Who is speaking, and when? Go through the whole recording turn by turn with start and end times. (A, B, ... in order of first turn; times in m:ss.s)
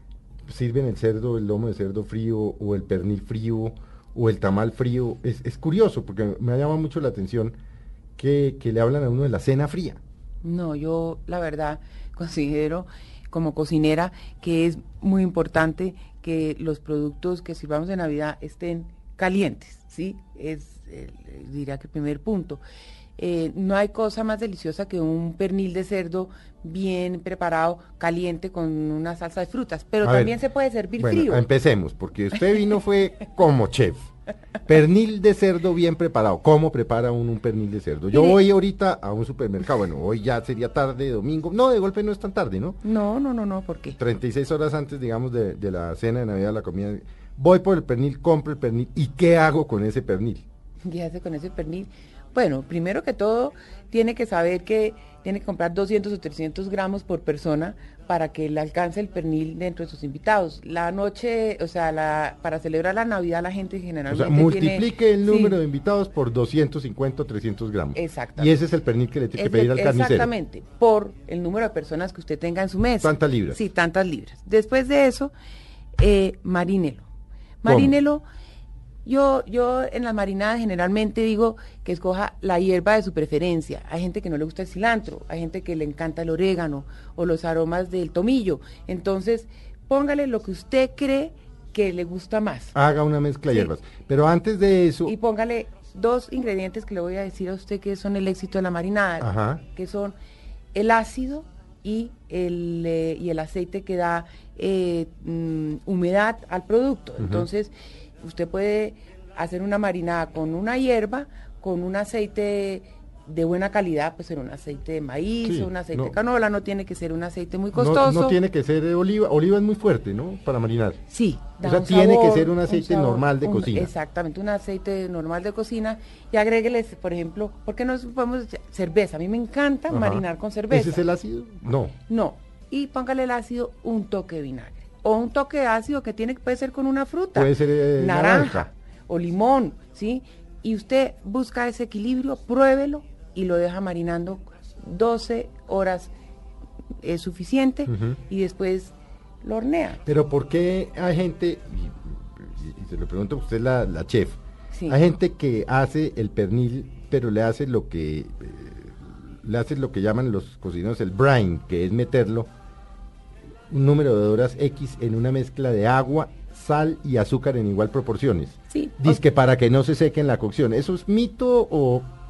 0:00.5-0:07.6 A
0:08.2-0:10.0 A
0:10.4-0:22.6 B
0:23.2-0:31.4 B
0:30.0-0:30.3 A
0:31.0-0:34.1 A
0:34.7-0:42.8 A
0:38.1-0:38.4 B
0:42.8-0:44.0 B
0:44.0-0:50.4 A
0:50.8-1:05.6 B
1:04.1-1:10.3 A
1:08.0-1:08.6 B
1:09.4-1:15.3 B
1:13.0-1:13.6 A
1:16.0-1:17.0 B
1:17.6-1:18.2 B
1:17.7-1:17.9 A
1:19.0-1:32.7 B
1:32.7-1:35.1 A
1:35.1-1:40.2 B
1:39.2-1:39.6 A
1:40.7-1:58.4 B
1:47.2-1:47.5 A
1:55.4-1:56.2 A
1:57.7-2:01.0 A
2:01.1-2:11.0 B
2:01.6-2:03.9 A
2:09.9-2:12.0 A
2:12.1-2:26.1 B
2:17.4-2:18.7 A
2:27.0-2:30.0 B
2:27.9-2:28.2 A
2:30.1-2:42.5 A
2:34.7-2:35.0 B
2:43.7-2:52.1 A
2:48.7-2:49.2 B